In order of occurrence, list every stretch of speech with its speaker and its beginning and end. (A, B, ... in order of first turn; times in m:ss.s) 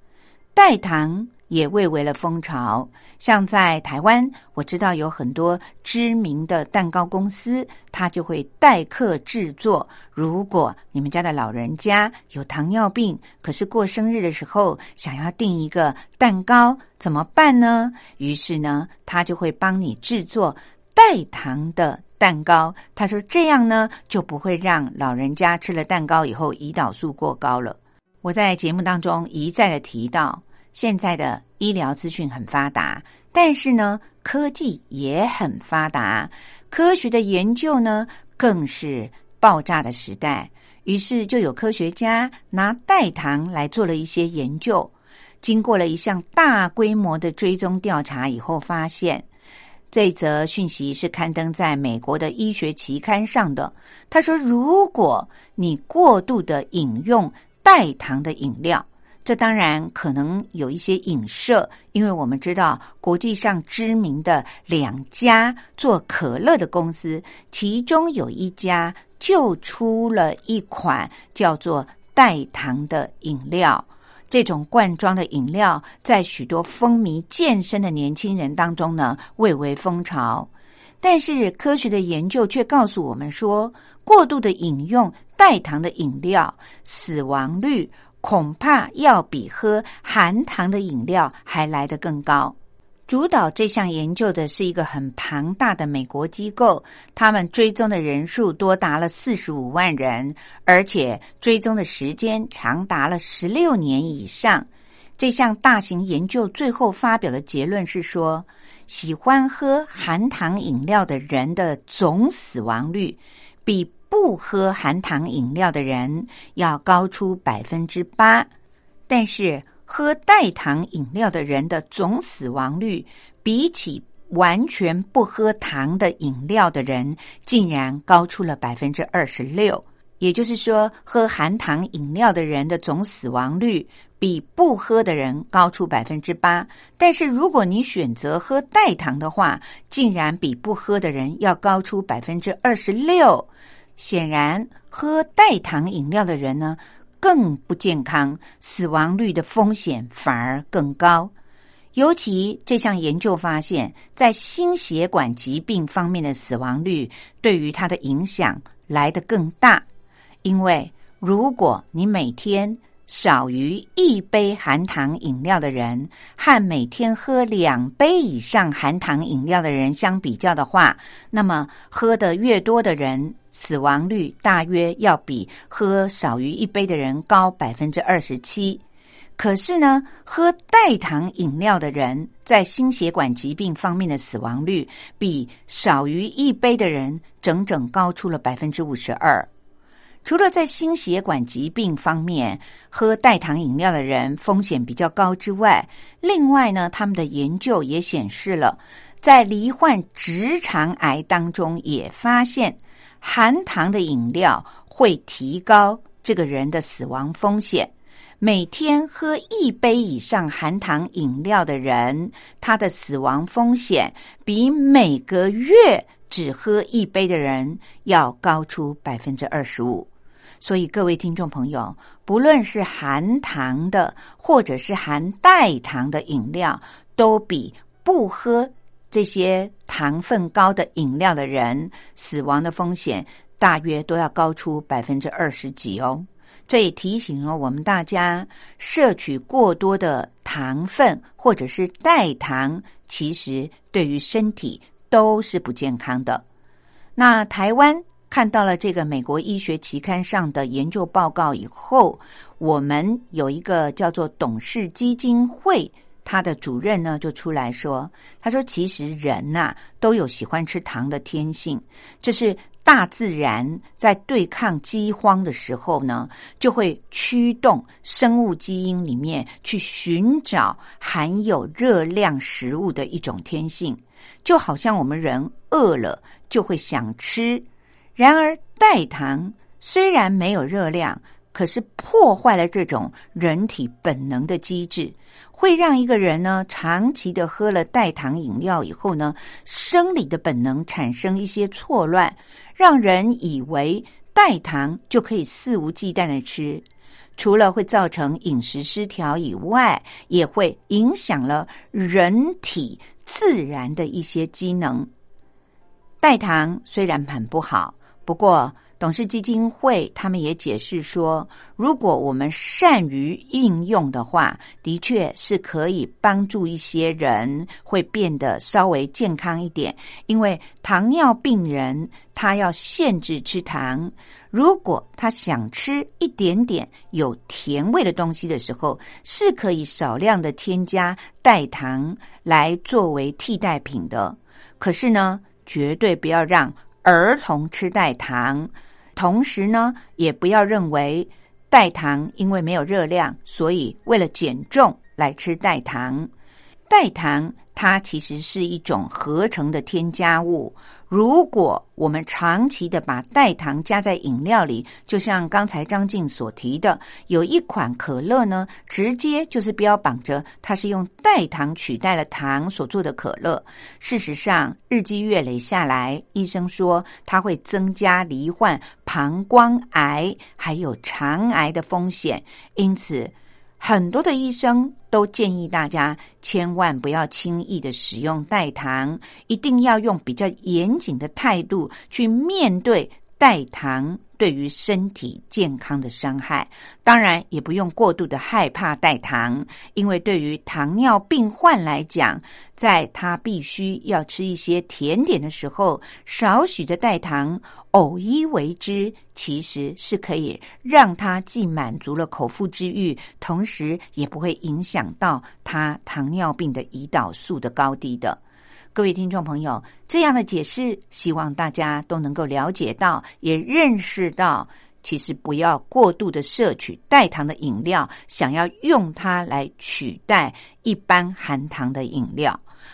0:00.5-0:44.9 A
0:45.4-0:49.2 A
0:49.9-1:20.5 A
1:21.0-1:32.5 A
1:33.1-1:44.7 A
1:45.2-1:58.5 A
1:59.1-2:31.3 A
2:31.9-2:39.8 A
2:40.4-2:58.8 A
2:59.4-3:09.5 A
3:10.2-3:40.1 A
3:40.6-4:06.4 A
4:07.2-4:37.6 A
4:38.2-4:56.8 A
4:57.4-5:05.1 A
5:06.2-5:46.3 A
5:46.9-6:48.4 A
6:48.9-7:02.6 A